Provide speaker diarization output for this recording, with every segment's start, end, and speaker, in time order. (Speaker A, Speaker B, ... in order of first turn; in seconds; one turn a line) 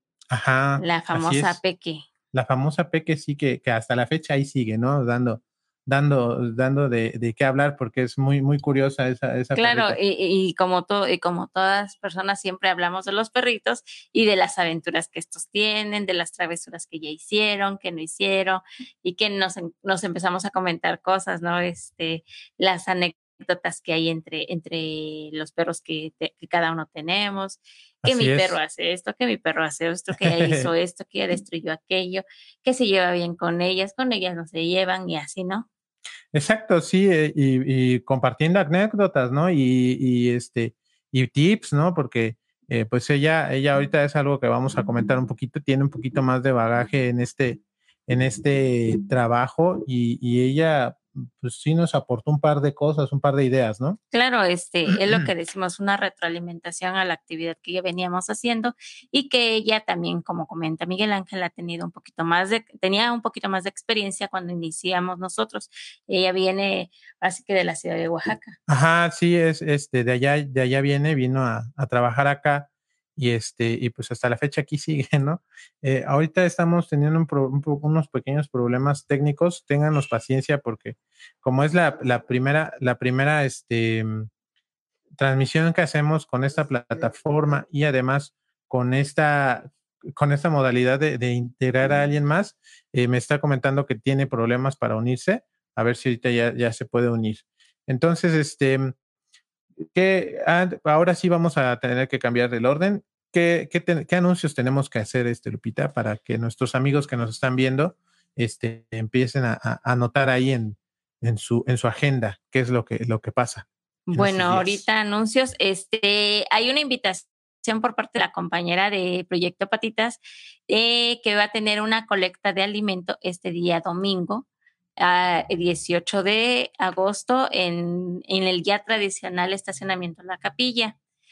Speaker A: 0.3-1.6
Speaker B: 0.8-2.0
Speaker A: 2.3-10.0
Speaker B: 9.5-35.7
Speaker A: 28.0-28.6
Speaker A: 30.2-30.7
Speaker A: 36.3-54.0
Speaker B: 54.1-68.6
Speaker A: 68.7-84.3
Speaker A: 85.2-98.9
Speaker A: 99.8-114.8
Speaker B: 114.1-124.5
Speaker B: 125.0-130.9